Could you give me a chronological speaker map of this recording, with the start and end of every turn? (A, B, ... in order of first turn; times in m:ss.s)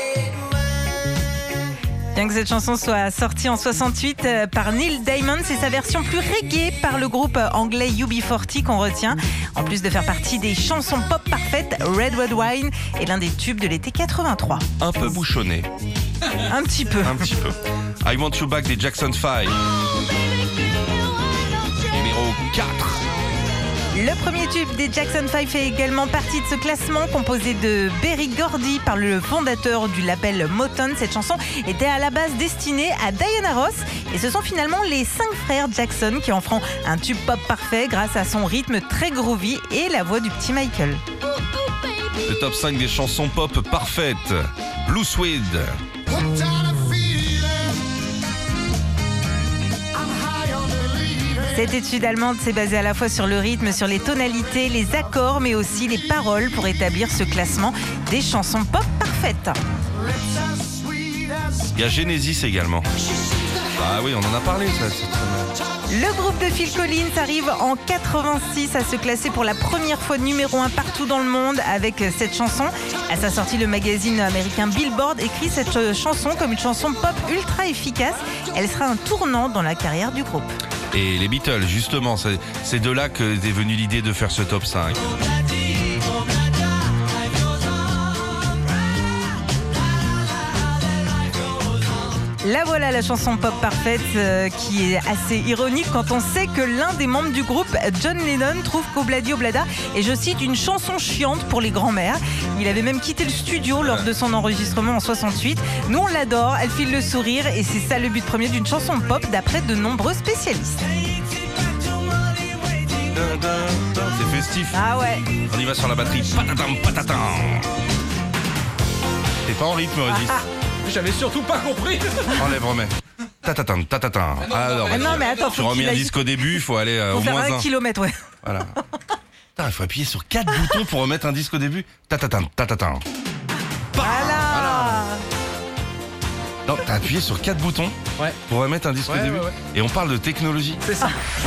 0:02.2-0:14.6 A
0:14.8-0:15.7 B
0:16.4-0:17.2 A
0:17.0-0:19.6 B
0:21.9-0:23.0 B
0:23.9-0:41.0 A
0:42.2-0:45.7 B
0:46.4-0:47.3 A
0:50.6-0:59.6 A
1:00.8-1:01.2 A
1:01.7-1:02.9 B
1:03.8-1:05.6 B
1:05.9-1:20.5 A
1:20.9-1:25.2 B
1:32.4-1:50.8 A
1:43.8-1:44.1 B
1:53.1-1:54.8 B
1:54.7-1:55.3 A
1:55.3-1:57.7 B
1:59.4-2:00.4 B
2:00.1-2:00.4 A
2:00.8-2:02.5 C
2:02.4-2:07.7 B
2:04.6-2:05.3 C
2:04.9-2:08.2 A
2:08.4-2:08.7 B
2:09.6-2:13.0 B
2:10.5-2:10.8 A
2:14.0-2:15.2 A
2:14.0-2:15.0 B
2:16.7-2:20.9 B
2:19.1-2:19.5 C